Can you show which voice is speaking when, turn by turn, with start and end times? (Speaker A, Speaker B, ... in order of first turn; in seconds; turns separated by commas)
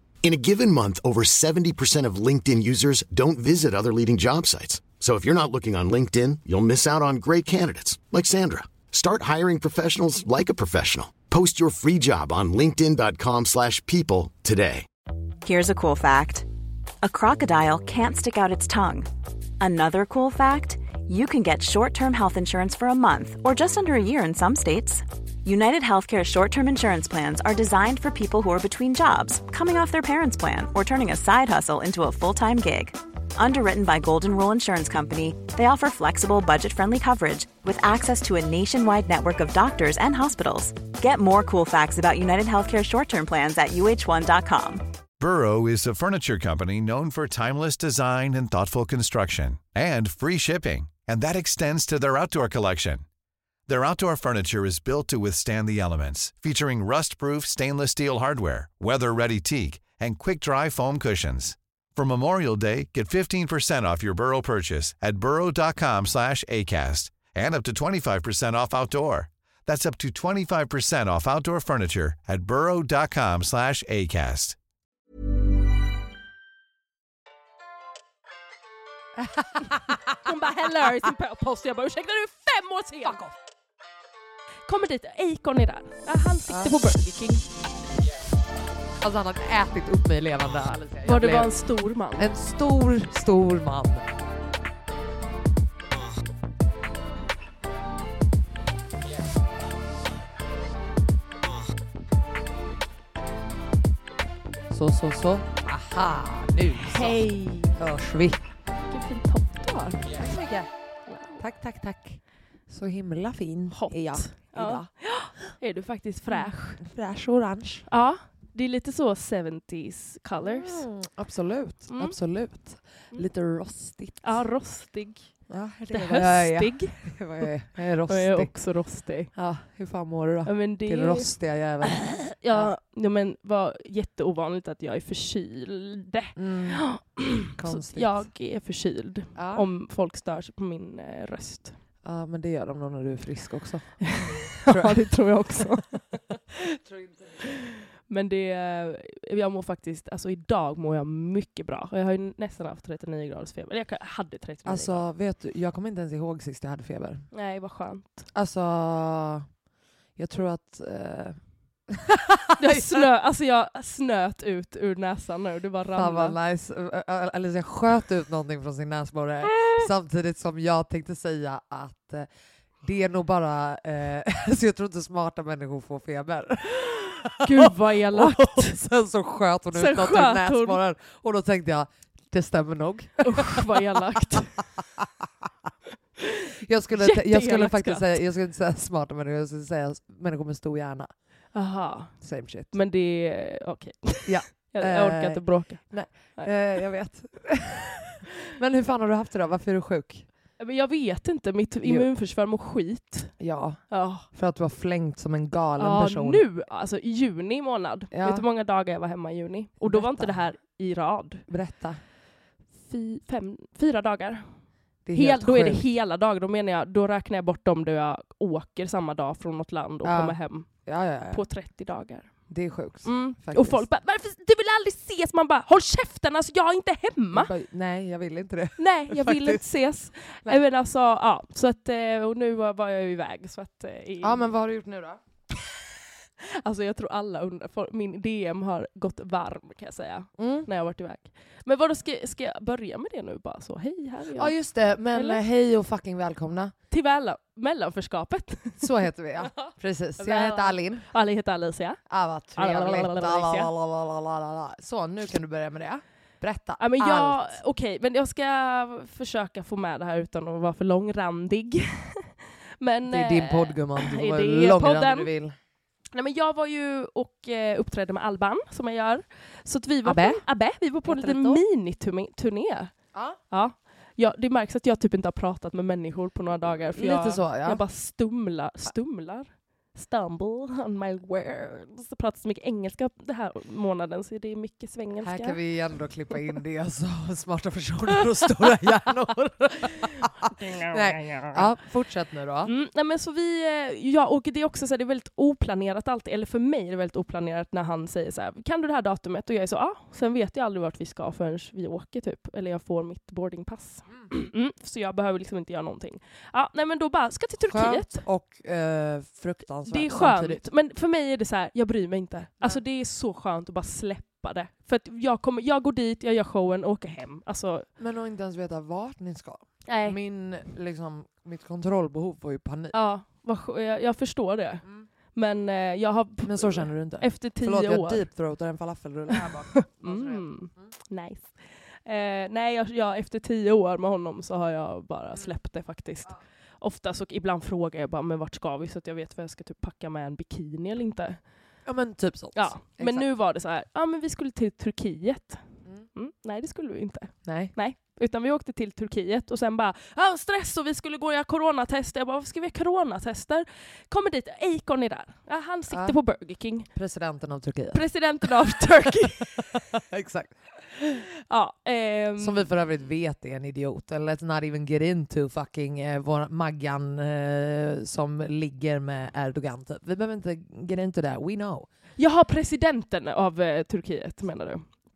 Speaker A: 0.2-14.8, Speaker B: 15.4-16.5, Speaker B: 17.0-19.1, Speaker B: 19.6-44.8, Speaker C: 45.2-53.0, Speaker C: 53.7-74.6, Speaker D: 79.2-80.0, Speaker E: 80.2-83.2, Speaker D: 83.0-83.3, Speaker E: 84.7-87.4, Speaker D: 86.5-86.8, Speaker D: 89.0-91.5, Speaker E: 91.0-92.3, Speaker D: 92.2-94.0, Speaker D: 104.7-107.2, Speaker E: 106.8-107.8, Speaker D: 107.8-108.4, Speaker E: 108.9-110.2, Speaker D: 110.1-110.7, Speaker E: 111.1-111.4, Speaker D: 111.4-114.9, Speaker E: 113.7-116.8, Speaker D: 116.3-117.8, Speaker E: 117.9-120.8, Speaker D: 120.4-124.4, Speaker E: 121.9-122.2, Speaker E: 124.2-125.2, Speaker D: 125.5-128.5, Speaker E: 125.9-127.5, Speaker E: 128.1-129.3, Speaker D: 129.3-132.7, Speaker E: 130.4-131.3, Speaker E: 131.9-141.8, Speaker D: 136.3-136.8, Speaker D: 137.5-138.2, Speaker D: 139.3-139.7, Speaker D: 142.0-145.1, Speaker E: 144.0-146.0, Speaker D: 146.5-147.4, Speaker E: 147.4-155.0, Speaker D: 154.6-157.2, Speaker E: 157.3-158.2, Speaker D: 158.3-159.5, Speaker D: 160.2-161.4, Speaker D: 161.9-163.1, Speaker E: 162.6-166.4, Speaker D: 165.9-172.3, Speaker E: 169.4-169.8, Speaker D: 172.8-185.2, Speaker E: 177.4-178.8, Speaker E: 179.7-180.8, Speaker E: 183.2-184.6, Speaker D: 186.6-191.1, Speaker E: 186.9-188.1, Speaker E: 191.5-192.1, Speaker D: 192.2-192.7, Speaker E: 192.7-195.8, Speaker D: 194.2-200.2, Speaker E: 200.6-203.3, Speaker D: 201.8-202.1, Speaker D: 203.4-206.4, Speaker E: 203.9-204.3, Speaker E: 205.8-211.4, Speaker D: 208.1-208.4, Speaker D: 209.8-210.3, Speaker D: 211.5-212.0, Speaker E: 212.9-214.4, Speaker D: 215.0-215.8, Speaker E: 215.1-220.7, Speaker D: 220.0-221.4, Speaker E: 221.3-222.3, Speaker D: 222.5-223.8, Speaker E: 223.0-227.5, Speaker D: 227.3-229.6, Speaker E: 228.8-234.5, Speaker D: 234.2-235.2, Speaker E: 236.4-244.5, Speaker D: 240.4-240.7, Speaker D: 244.3-246.7, Speaker E: 245.1-245.4, Speaker E: 246.9-248.9, Speaker D: 248.8-251.1, Speaker E: 249.6-252.0, Speaker D: 252.1-257.6, Speaker E: 252.5-253.7, Speaker E: 256.8-265.3, Speaker D: 263.0-265.6, Speaker E: 266.1-272.9, Speaker D: 270.0-270.4, Speaker D: 271.0-271.6, Speaker E: 273.5-285.6, Speaker D: 276.9-277.8, Speaker D: 285.2-292.7, Speaker E: 290.4-291.6, Speaker E: 292.6-308.2, Speaker D: 307.7-310.6, Speaker E: 309.9-317.9, Speaker D: 318.0-323.0, Speaker E: 319.9-320.2, Speaker E: 322.9-328.2, Speaker D: 326.4-330.8, Speaker E: 329.3-341.4, Speaker D: 341.8-343.3, Speaker E: 342.5-345.6, Speaker E: 346.1-356.9, Speaker D: 347.4-347.7, Speaker D: 355.9-356.2, Speaker D: 356.9-361.2, Speaker E: 357.9-359.9, Speaker E: 361.5-362.7, Speaker D: 362.4-371.9, Speaker E: 372.2-374.9